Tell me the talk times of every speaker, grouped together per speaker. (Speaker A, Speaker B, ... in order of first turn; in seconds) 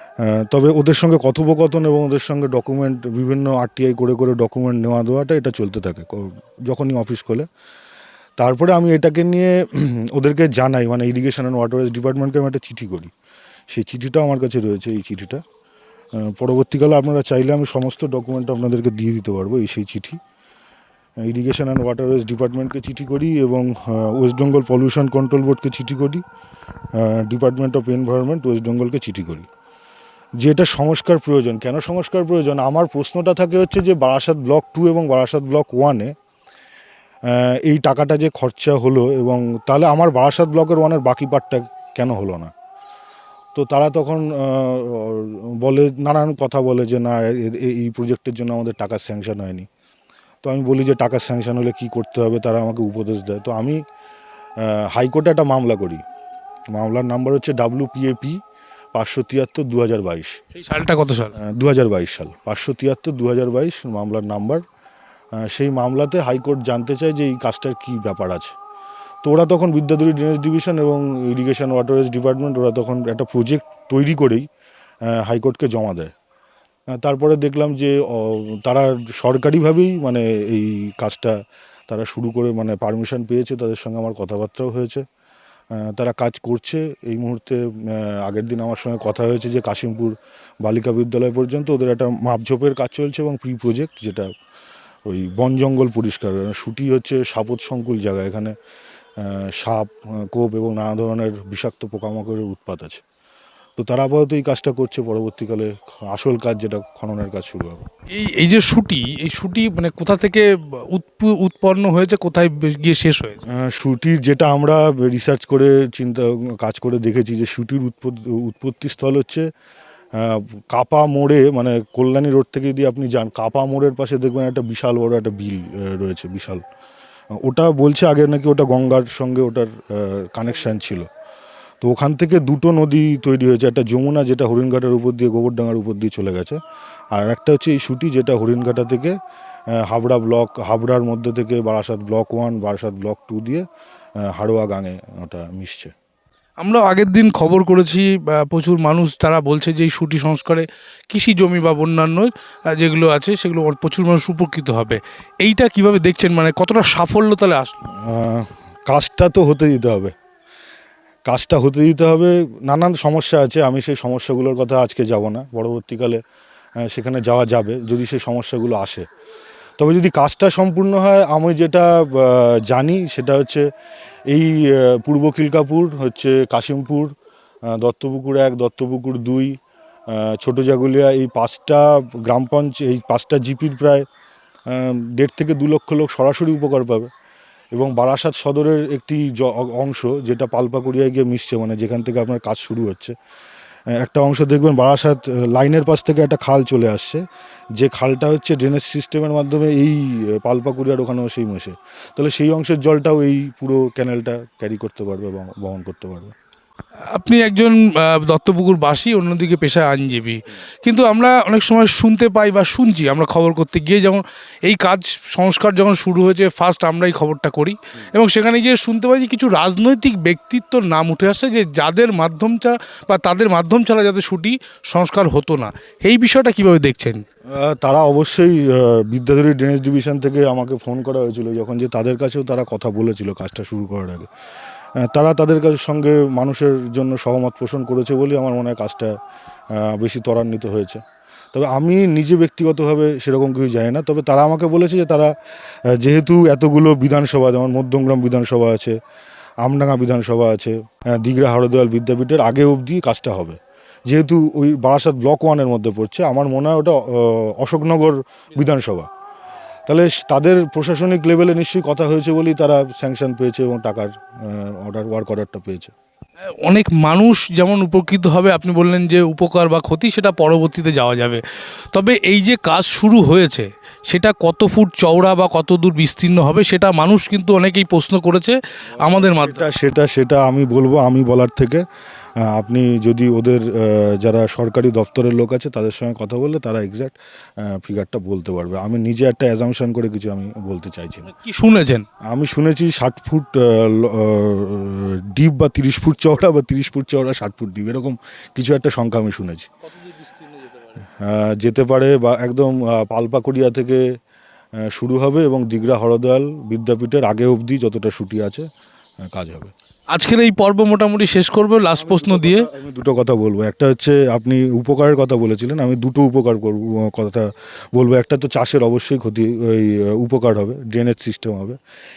Speaker A: 0.2-7.5, 8.4-13.1, 13.7-15.4, 16.2-20.2, 21.2-26.2, 26.9-29.5, 30.4-36.1, 37.3-42.5, 43.5-49.7, 50.4-53.8, 54.6-56.0, 56.7-58.4, 58.9-60.4, 61.4-64.6, 65.4-68.5, 69.2-74.4, 75.1-76.1, 77.0-81.3, 81.9-85.0, 85.7-94.3, 95.1-98.5, 99.2-103.0, 103.8-107.8, 113.5-119.5, 120.1-126.6, 127.3-131.1, 131.8-136.6, 137.1-139.1, 139.7-143.6, 144.2-145.9, 158.0-160.1, 161.3-166.2, 166.8-169.1, 169.8-173.7, 174.3-177.1, 177.7-179.5, 180.1-184.0, 184.7-187.1, 187.7-193.1, 194.0-197.2, 197.8-206.3, 227.5-234.3, 235.0-239.1, 239.7-241.0, 241.5-245.3, 245.9-249.0, 249.6-259.1, 259.9-265.9, 279.0-281.8, 282.4-291.3, 292.3-299.7, 301.2-304.0, 304.8-308.6, 309.2-309.7, 311.9-321.8
Speaker B: 60.5-61.3, 108.1-113.4, 146.6-157.8, 207.1-227.2, 266.6-279.7, 291.2-292.0, 299.9-300.9, 310.1-312.7